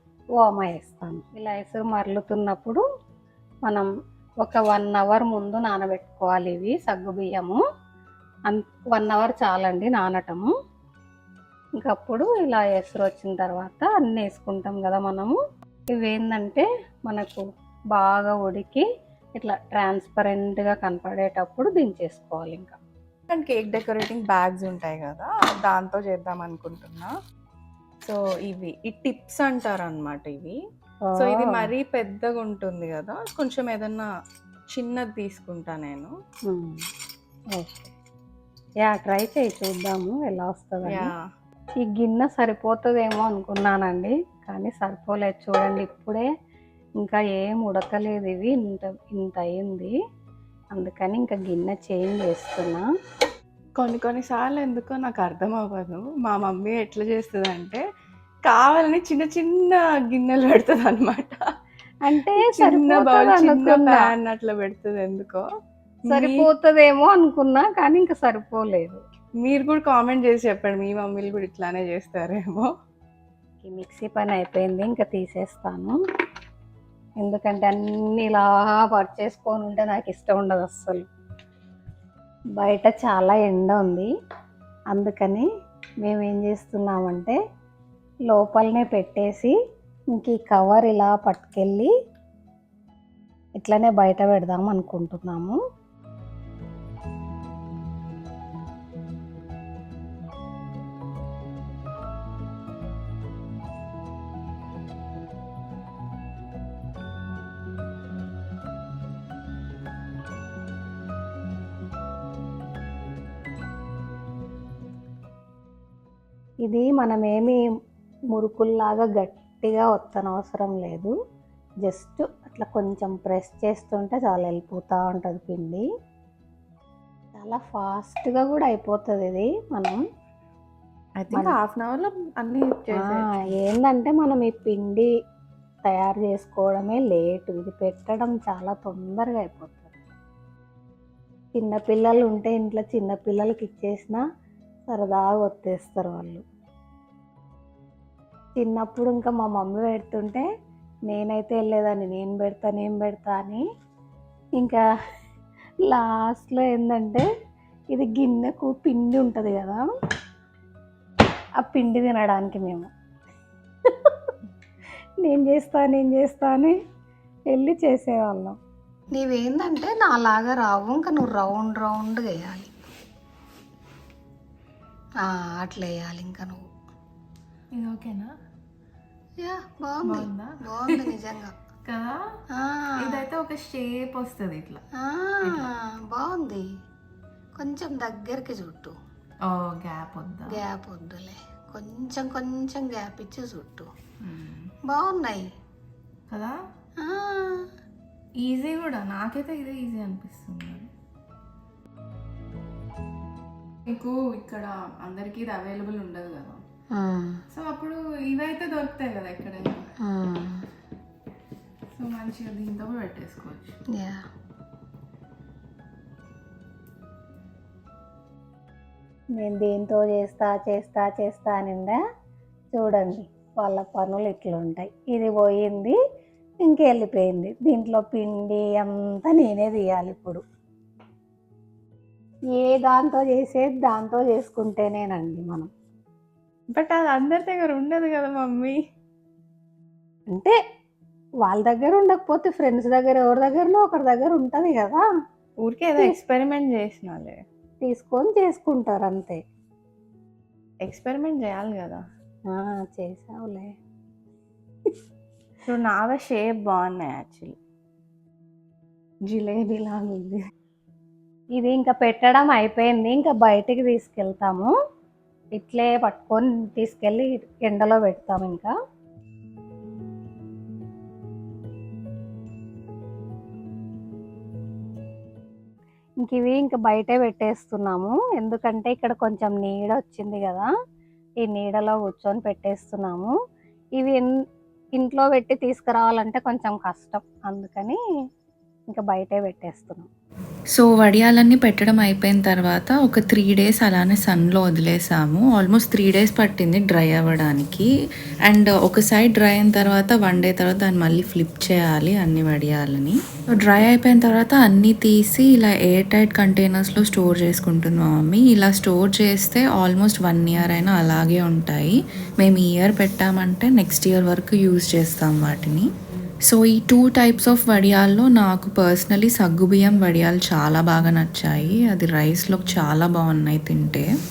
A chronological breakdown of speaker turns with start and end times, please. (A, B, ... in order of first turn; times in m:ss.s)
0:00.4-0:02.8 A
0:04.4-0:07.6 A
0:08.5-0:10.5 A
0:11.8-0:15.4 A
0:15.9-0:18.9 A
0:19.4-0:22.8 A
0:23.3-0:27.1 B
0:28.0-0:30.6 B
0:31.1-0:31.7 A
0:31.2-0:34.1 B
0:34.7-0:36.1 B
0:36.5-0:36.8 A
0:37.6-0:37.9 A
0:38.8-0:41.1 A
0:40.9-0:41.2 B
0:41.8-0:46.3 A
0:47.0-0:49.9 A
0:50.7-0:52.8 A
0:53.8-0:57.8 B
0:58.5-1:01.4 B
1:02.0-1:04.1 A
1:02.3-1:05.5 B
1:06.1-1:06.5 B
1:06.1-1:09.0 A
1:09.4-1:12.7 B
1:13.6-1:16.0 A
1:17.2-1:21.0 A
1:22.6-1:24.1 A
1:24.9-1:25.5 A
1:26.0-1:27.4 A
1:28.3-1:29.6 A
1:30.1-1:31.9 A
1:33.6-1:35.6 A
1:56.6-1:57.6 A
1:58.3-2:01.1 A
2:01.9-2:05.9 A
2:07.3-2:10.0 A
2:11.2-2:13.4 B
2:13.0-2:15.1 A
2:15.9-2:20.0 A
2:21.6-2:24.2 A
2:24.9-2:26.4 A
2:28.6-2:30.5 A
2:31.1-2:33.6 A
2:35.8-2:37.3 A
2:37.9-2:39.9 A
2:41.6-2:42.9 A
2:43.9-2:44.3 A
2:45.2-2:46.8 A
2:47.5-2:48.6 A
2:49.1-2:52.7 A
2:55.2-2:56.7 A
2:57.7-2:58.3 B
2:59.4-3:01.6 A
3:00.0-3:01.1 B
3:01.9-3:02.3 B
3:02.5-3:03.3 A
3:03.0-3:04.8 B
3:05.0-3:06.7 A
3:07.6-3:09.0 A
3:09.4-3:10.6 B
3:10.5-3:13.9 A
3:14.2-3:14.7 B
3:14.9-3:15.5 A
3:16.3-3:16.6 B
3:17.0-3:17.7 A
3:18.4-3:20.9 B
3:23.9-3:26.6 B
3:26.9-3:27.4 A
3:27.5-3:29.9 B
3:30.0-3:30.6 A
3:32.0-3:33.8 B
3:33.9-3:34.2 A
3:39.4-3:42.0 A
3:42.7-3:46.0 A
3:46.6-3:50.4 A
3:52.6-3:55.7 A
3:56.7-3:58.8 B
4:00.3-4:00.6 A
4:01.4-4:05.0 A
4:05.6-4:07.4 B
4:07.8-4:09.4 A
4:10.8-4:12.0 B
4:12.5-4:13.7 A
4:15.7-4:17.6 B
4:19.3-4:20.4 B
4:21.6-4:24.7 A
4:25.6-4:28.7 A
4:36.2-4:40.7 A
4:41.4-4:43.4 A
4:44.0-4:44.3 A
4:45.0-4:48.0 A
4:48.9-4:50.1 A
4:50.7-4:57.9 C
4:58.5-5:15.9 C
5:16.5-5:24.1 C